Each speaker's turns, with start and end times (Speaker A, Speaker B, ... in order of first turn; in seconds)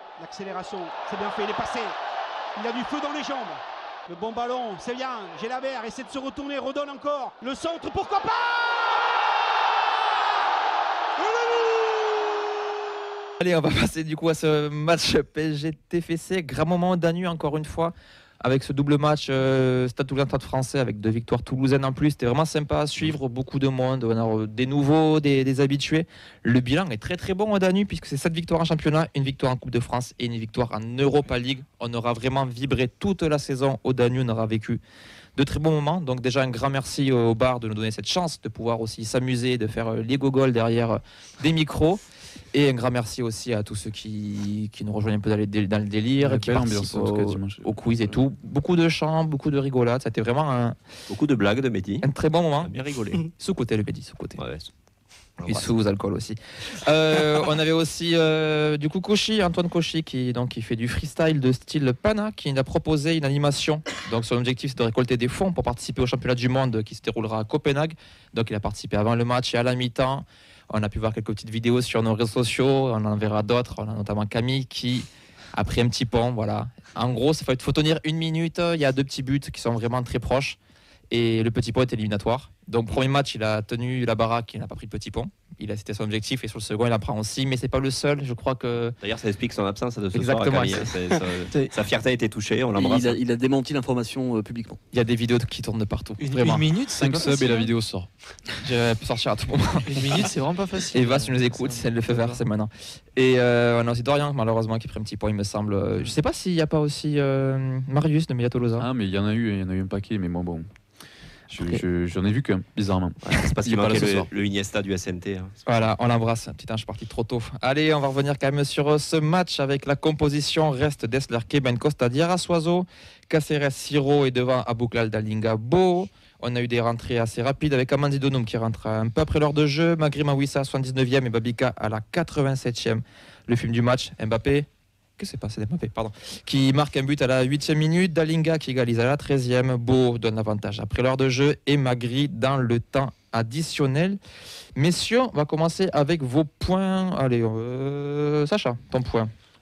Speaker A: 0.2-1.9, 2.5-9.1, 11.2-12.2
Speaker B: 13.4-34.8, 35.4-42.0, 42.5-50.8, 52.0-54.4, 55.5-80.6, 81.1-89.0, 90.1-91.2, 94.9-96.6, 98.6-100.3, 100.9-108.9, 115.6-144.2, 144.8-149.3
Speaker C: 46.2-47.6, 96.9-98.1, 108.8-110.7, 111.5-114.3
Speaker D: 51.1-52.1, 52.6-53.2, 54.4-54.7, 55.4-55.7, 89.0-93.2, 113.2-115.5
Speaker E: 92.7-94.8
Speaker F: 96.2-97.7, 99.9-102.4